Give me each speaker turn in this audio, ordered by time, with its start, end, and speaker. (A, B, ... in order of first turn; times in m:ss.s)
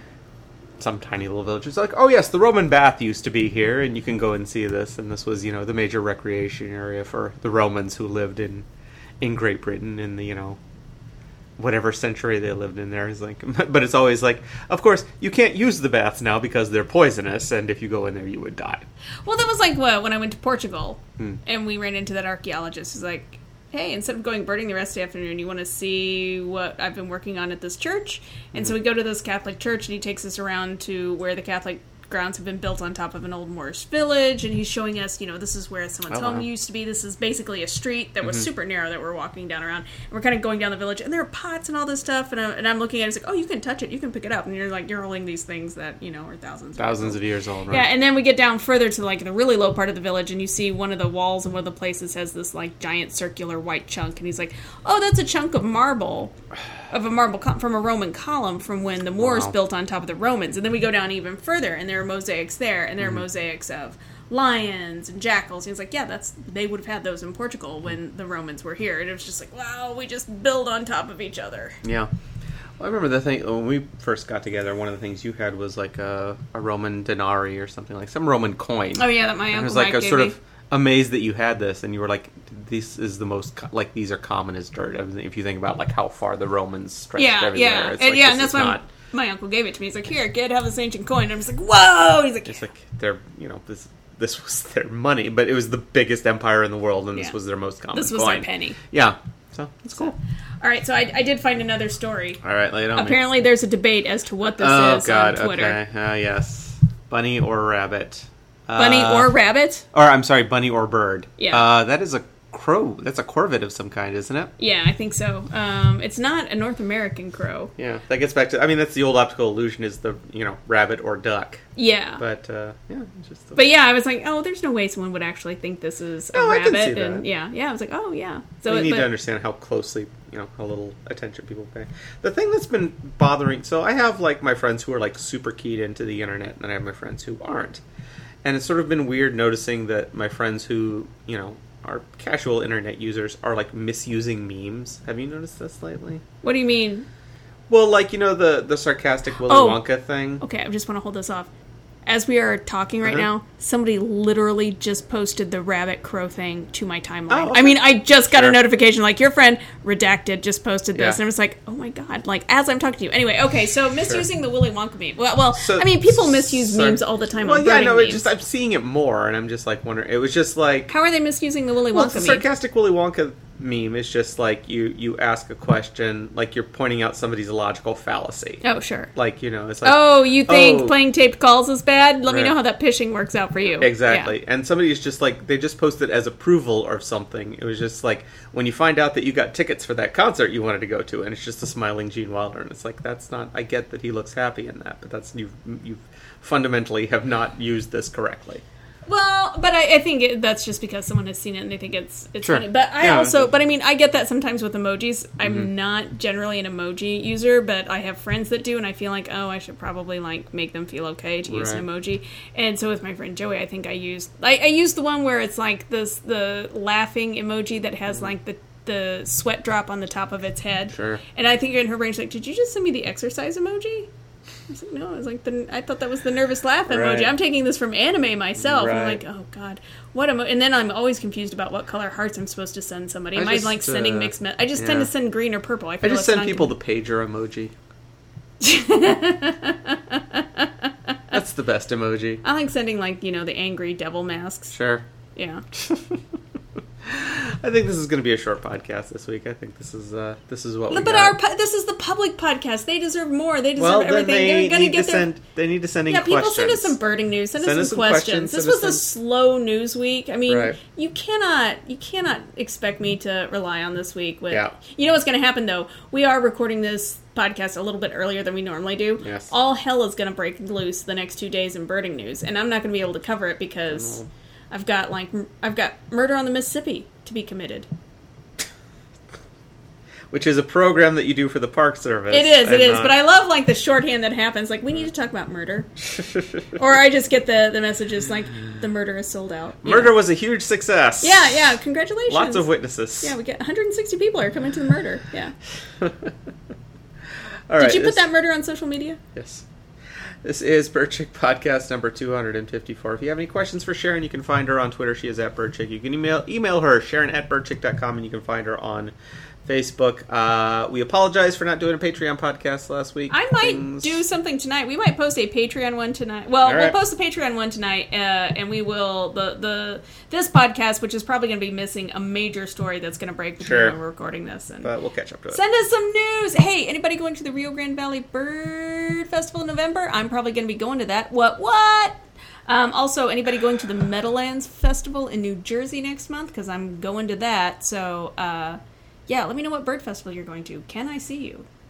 0:00.8-0:08.7 A
0:09.2-0:10.6 A
0:11.6-0:18.9 A
0:19.2-0:56.4 B
0:36.1-0:36.4 A
0:46.8-0:47.9 A
0:56.9-1:11.8 B
0:59.2-0:59.5 A
1:11.8-1:12.1 A
1:12.8-1:28.8 A
1:19.0-1:20.4 B
1:27.2-1:32.6 B
1:32.5-1:40.2 A
1:37.9-1:38.8 B
1:40.0-1:42.4 B
1:42.4-1:43.2 A
1:42.9-1:45.8 B
1:44.6-1:49.3 A
1:48.8-1:49.8 B
1:49.9-1:54.5 A
1:51.4-1:51.6 B
1:54.6-1:57.7 B
1:57.8-2:01.7 A
2:01.8-2:02.2 B
2:02.2-2:03.6 A
2:03.6-2:09.1 B
2:06.3-2:07.2 A
2:08.7-2:17.8 A
2:18.4-2:26.2 A
2:26.4-2:27.1 B
2:27.7-2:30.4 A
2:29.5-2:29.8 B
2:30.4-2:31.5 B
2:32.1-2:48.3 B
2:37.3-2:38.6 A
2:45.5-2:50.9 A
2:50.9-2:52.4 B
2:51.9-2:58.6 A
2:58.6-2:59.1 B
2:59.1-3:01.0 A
2:59.8-3:04.3 B
3:02.3-3:02.5 A
3:03.8-3:18.6 A
3:19.1-3:44.1 B
3:22.4-3:23.5 A
3:31.5-3:31.8 A
3:40.9-3:41.2 A
3:44.7-3:56.8 B
3:46.9-3:47.3 A
3:48.6-3:49.2 A
3:53.3-3:55.1 A
3:56.0-3:57.7 A
3:58.6-4:00.9 B
4:01.3-4:02.4 A
4:02.4-4:04.7 B
4:04.7-4:05.0 A
4:05.4-4:05.6 B
4:05.8-4:06.2 A
4:07.0-4:11.4 A
4:10.9-4:15.3 B
4:13.8-4:17.0 A
4:16.1-4:34.2 B
4:17.6-4:19.0 A
4:20.5-4:20.8 A
4:24.5-4:24.8 A
4:29.2-4:29.5 A
4:33.9-4:34.3 A
4:34.7-4:37.9 B
4:40.3-4:43.2 A
4:42.3-4:45.9 B
4:46.8-4:50.2 B
4:49.8-4:51.6 A
4:51.2-4:55.5 B
4:52.3-4:53.4 A
4:56.0-4:56.3 A
4:57.7-4:58.3 A
4:57.8-4:59.2 B
4:59.4-4:59.6 A
5:00.4-5:09.1 A
5:09.6-5:14.2 A
5:13.3-5:24.9 B
5:16.6-5:17.0 A
5:23.6-5:24.0 A
5:24.8-5:25.6 A
5:25.5-5:41.7 B